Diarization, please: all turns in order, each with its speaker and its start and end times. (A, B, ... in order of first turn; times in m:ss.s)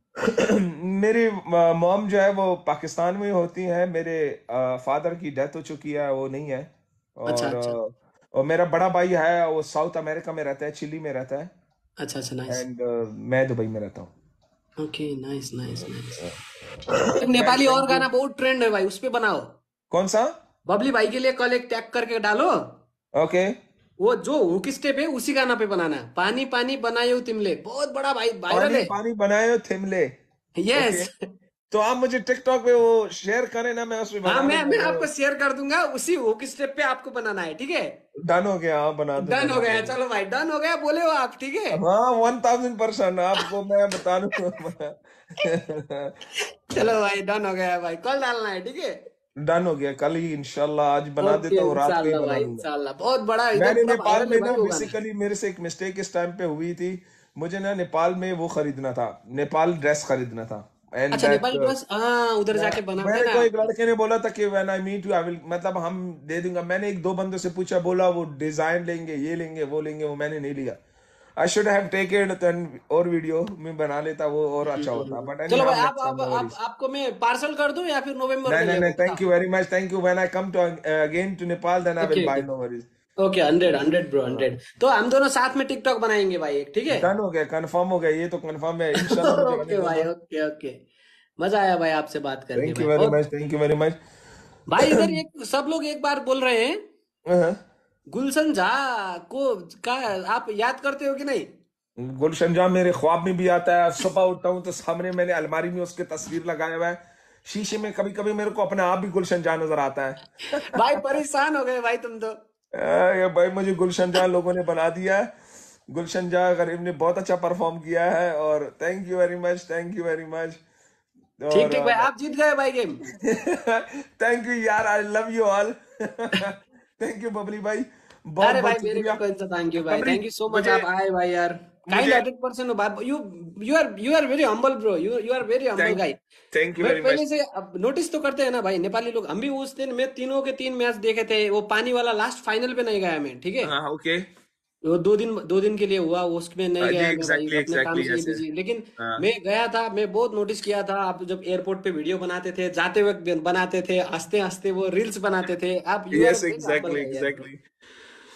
0:00.2-0:11.5 A
0:07.3-0:07.8 B
0:12.0-0:12.6 B
0:12.5-0:14.1 A
0:14.8-0:16.2 B
0:16.9-0:18.1 A
0:17.2-0:19.5 B
0:19.9-0:20.3 A
0:20.7-0:22.5 B
0:23.2-0:23.5 A
0:24.0-0:28.9 B
0:28.5-0:30.1 A
0:30.6-0:31.1 B
0:30.7-0:31.1 A
0:31.7-0:35.1 A
0:34.2-0:37.9 B
0:38.3-0:40.0 A
0:39.2-0:41.8 B
0:41.7-0:46.1 A
0:46.7-0:49.0 B
0:49.4-0:52.6 A
0:51.2-0:55.0 B
0:53.5-1:01.8 A
1:01.1-1:03.7 B
1:02.5-1:10.8 A
1:11.4-1:16.5 A
1:14.6-1:19.2 B
1:18.5-1:22.9 A
1:22.0-1:22.5 B
1:23.2-1:27.1 B
1:26.9-1:30.1 A
1:29.0-1:30.8 B
1:31.4-1:33.2 B
1:32.6-1:34.0 A
1:34.7-1:36.8 B
1:34.8-1:35.1 A
1:37.3-1:37.6 A
1:38.1-1:41.4 B
1:42.0-1:50.6 A
1:50.6-1:52.3 B
1:52.8-1:55.3 A
1:55.9-2:00.6 A
2:01.4-2:02.1 A
2:01.5-2:03.0 B
2:03.2-2:09.2 A
2:08.4-2:16.2 B
2:09.8-2:10.9 A
2:11.9-2:12.2 A
2:15.8-2:17.2 A
2:16.8-2:23.7 B
2:23.6-2:24.2 A
2:24.9-2:37.5 B
2:26.8-2:28.4 A
2:29.0-2:29.2 A
2:36.1-2:37.6 A